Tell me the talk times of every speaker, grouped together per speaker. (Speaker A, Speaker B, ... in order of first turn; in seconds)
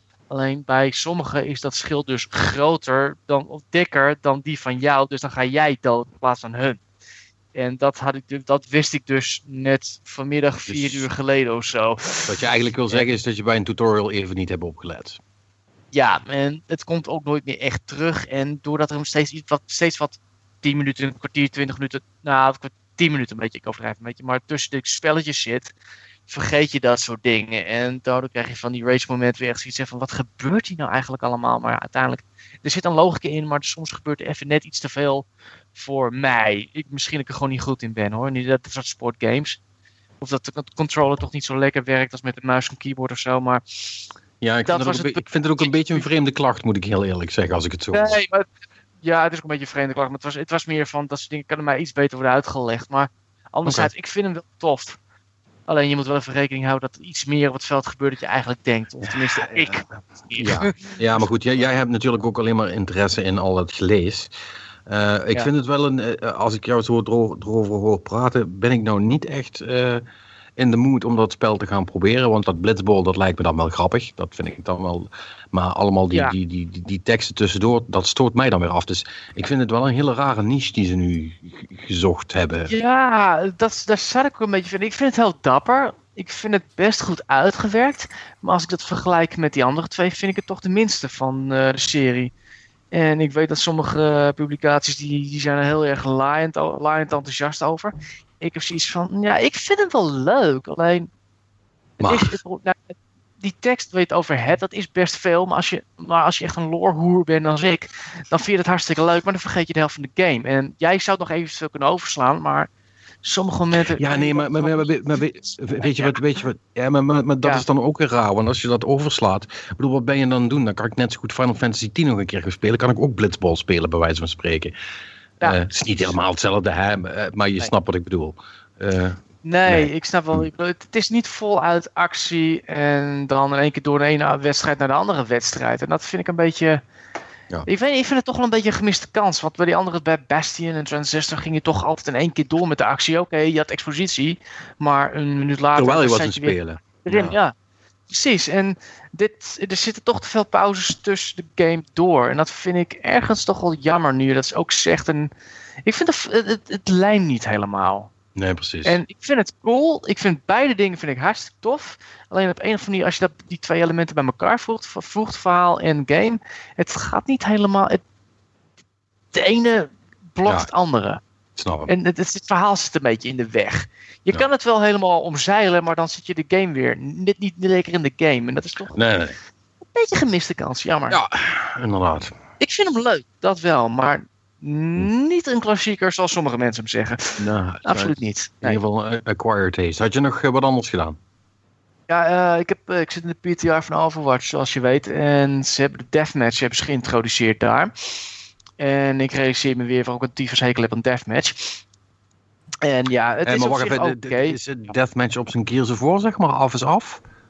Speaker A: 0.3-6.8, 7.5-12.3, 15.9-25.7, 26.3-39.6, 40.2-44.1, 44.7-46.1, 47.9-48.5, 49.0-55.0, 55.7-61.3, 82.7-92.3, 92.9-101.1, 102.0-112.7, 113.2-114.9, 115.8-116.2, 129.4-136.8, 137.7-147.5, 148.1-155.3, 155.8-158.1, 158.8-168.0, 169.3-171.2, 171.9-179.0, 179.9-181.2, 182.6-188.8, 192.1-197.9, 198.8-201.8, 202.8-204.6
Speaker B: 10.7-11.0, 12.3-15.2, 44.4-48.1, 59.0-59.8, 60.4-64.3, 64.9-70.0, 70.6-82.7, 102.0-102.3, 114.0-124.7, 125.4-130.4, 145.8-147.3, 158.3-159.0, 171.6-171.9, 178.9-179.3, 181.1-182.3, 187.4-191.2, 203.4-207.2